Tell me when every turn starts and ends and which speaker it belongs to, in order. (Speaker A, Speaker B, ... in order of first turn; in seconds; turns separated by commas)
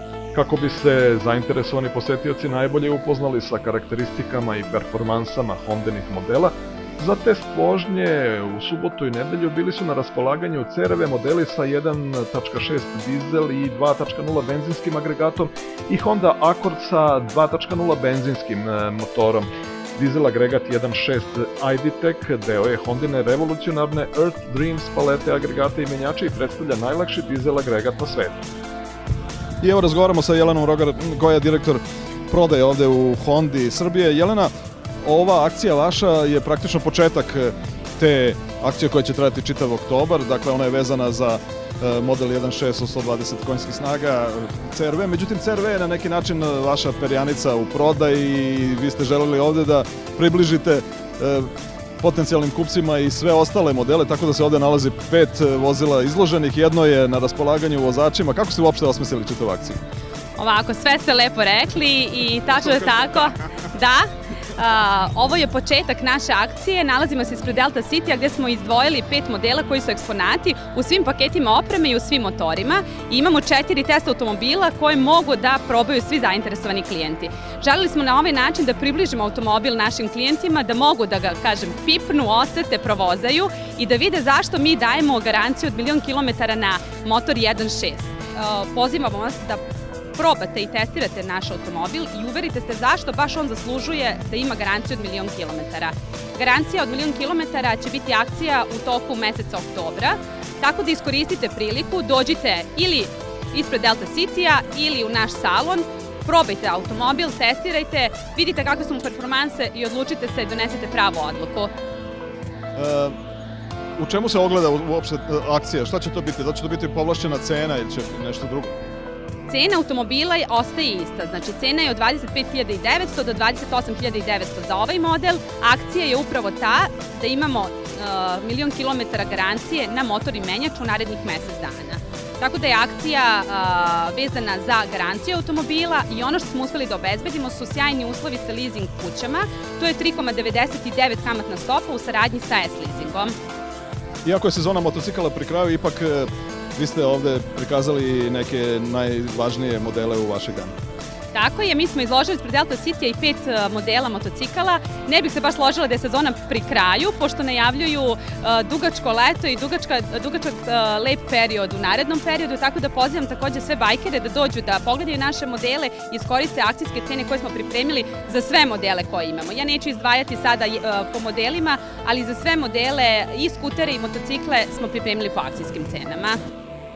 Speaker A: 0.3-28.4, Speaker B: 29.6-34.5, Speaker B: 35.0-59.8, Speaker C: 60.4-89.6, Speaker C: 90.2-111.7, Speaker B: 112.8-113.2, Speaker B: 114.0-118.8, Speaker C: 119.5-143.3, Speaker B: 144.2-150.7, Speaker C: 151.3-176.4